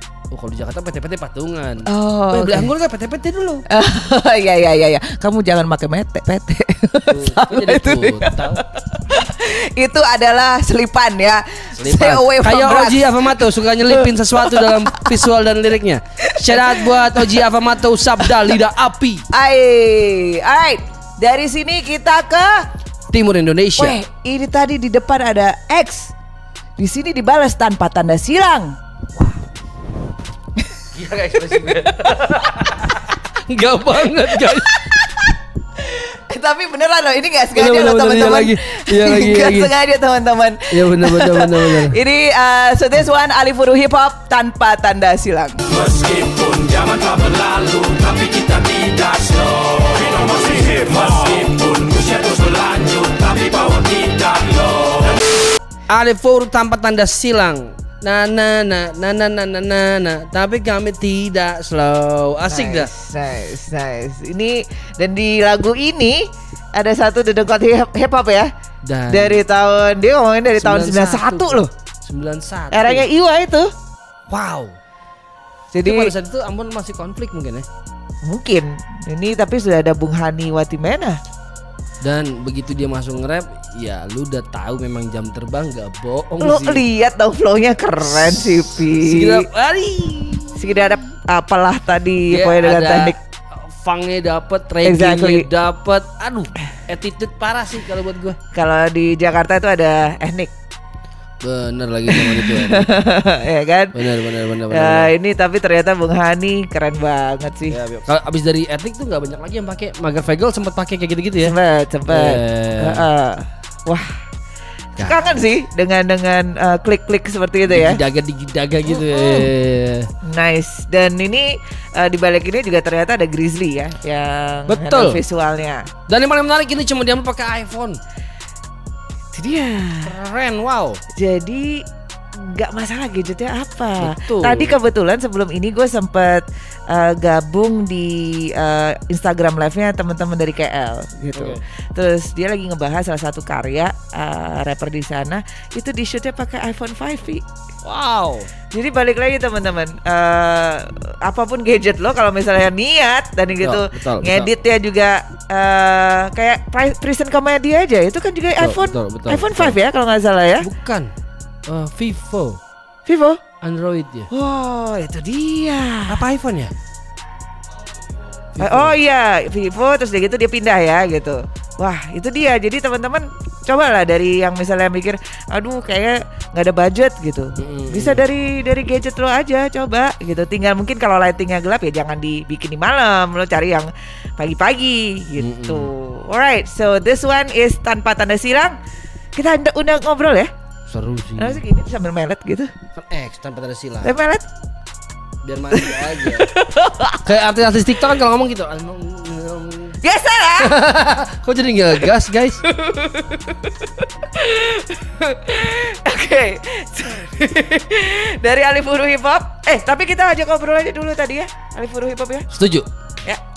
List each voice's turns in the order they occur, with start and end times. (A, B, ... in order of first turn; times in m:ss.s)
0:00.3-0:03.6 A
0:01.8-0:02.7 B
0:03.7-0:15.2 B
0:07.1-0:08.6 A
0:11.8-0:19.2 A
0:16.3-0:17.4 B
0:18.3-0:18.5 B
0:19.3-0:22.7 B
0:23.1-0:24.0 A
0:23.8-0:26.1 B
0:26.8-0:28.7 B
0:30.9-0:34.8 A
0:34.3-0:45.6 B
0:37.5-0:39.7 A
0:40.7-0:42.0 A
0:45.9-0:54.8 C
0:55.9-1:02.9 A
1:02.5-1:08.5 B
1:08.8-1:09.4 A
1:09.1-1:11.7 B
1:10.5-1:13.1 A
1:12.7-1:13.7 B
1:14.3-1:14.7 A
1:15.7-1:16.1 B
1:15.8-1:17.7 A
1:18.2-1:21.2 B
1:22.0-1:26.8 A
1:26.4-1:29.4 B
1:28.0-1:31.0 A
1:30.6-1:33.2 B
1:32.3-1:33.1 A
1:33.7-1:38.4 A
1:34.8-1:35.5 B
1:38.5-1:40.5 B
1:41.4-1:42.9 A
1:42.1-1:44.1 B
1:43.9-1:45.1 A
1:44.7-1:47.8 B
1:47.7-1:51.5 A
1:51.4-1:54.2 B
1:52.1-1:53.0 A
1:55.0-1:55.4 A
1:55.0-1:58.0 B
1:57.7-2:00.1 A
1:58.9-1:59.5 B
2:00.2-2:05.9 B
2:04.7-2:05.2 A
2:06.1-2:08.0 A
2:09.3-2:10.1 B
2:10.0-2:11.0 A
2:11.1-2:11.8 B
2:12.4-2:27.4 B
2:14.0-2:14.8 A
2:21.3-2:21.6 A
2:27.8-2:28.5 A
2:28.7-2:40.6 B
2:33.6-2:34.5 A
2:38.6-2:39.8 A
2:40.6-2:41.1 A
2:41.7-2:42.6 A
2:43.0-2:43.4 B
2:43.6-2:44.3 A
2:44.3-2:46.2 B
2:46.1-2:46.7 A
2:48.5-2:49.0 A
2:48.6-3:08.8 B
2:57.6-2:58.2 A
3:05.4-3:05.9 A
3:09.3-3:10.5 B
3:10.9-3:11.6 A
3:11.4-3:12.7 B
3:13.0-3:14.1 A
3:14.0-3:14.4 B
3:15.4-3:16.5 A
3:15.7-3:17.2 B
3:17.2-3:20.0 A
3:20.0-3:20.8 B
3:20.6-3:22.6 A
3:22.6-3:32.5 B
3:32.5-3:32.9 A